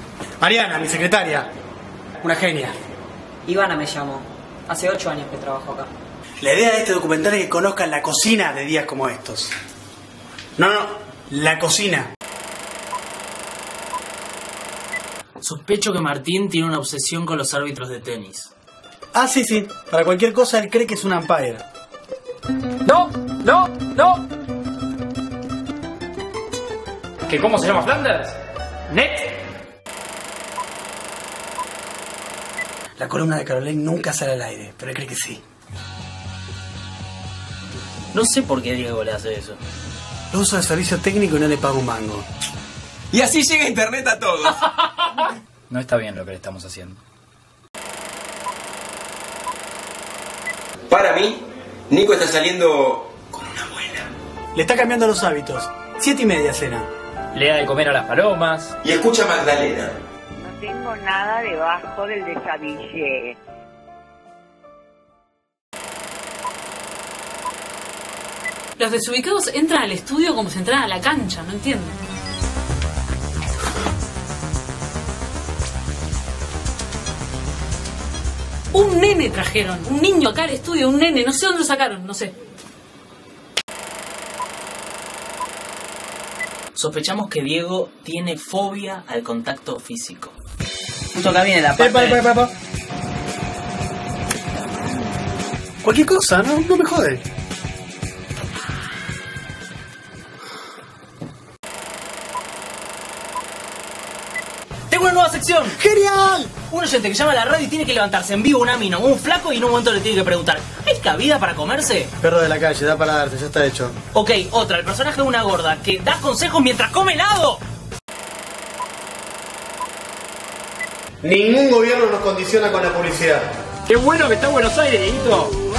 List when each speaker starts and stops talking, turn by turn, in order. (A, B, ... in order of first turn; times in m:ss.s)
0:00.4-0:01.5 A
0:02.2-0:02.8 A
0:03.5-0:05.9 B
0:06.4-0:09.5 A
0:10.6-0:12.1 A
0:15.4-0:18.5 C
0:19.2-0:21.6 A
0:22.8-0:24.2 D
0:27.3-0:28.4 D
0:28.9-0:29.3 D
0:33.0-0:35.4 A
0:38.1-0:39.6 C
0:40.3-0:42.3 A
0:43.1-0:44.6 E
0:45.7-0:47.0 D
0:50.9-0:53.1 E
0:54.6-0:56.9 A
0:57.3-0:58.7 D
0:58.8-1:00.0 E
1:00.4-1:03.4 F
1:08.8-1:12.0 G
1:18.7-1:22.3 G
1:26.8-1:30.3 C
1:31.1-1:32.2 C
1:31.8-1:32.5 A
1:35.8-1:37.2 A
1:44.9-1:45.8 C
1:45.8-1:46.5 A
1:46.6-1:52.1 C
1:52.2-1:54.0 A
1:54.1-1:57.6 C
2:01.2-2:03.5 A
2:03.9-2:05.5 D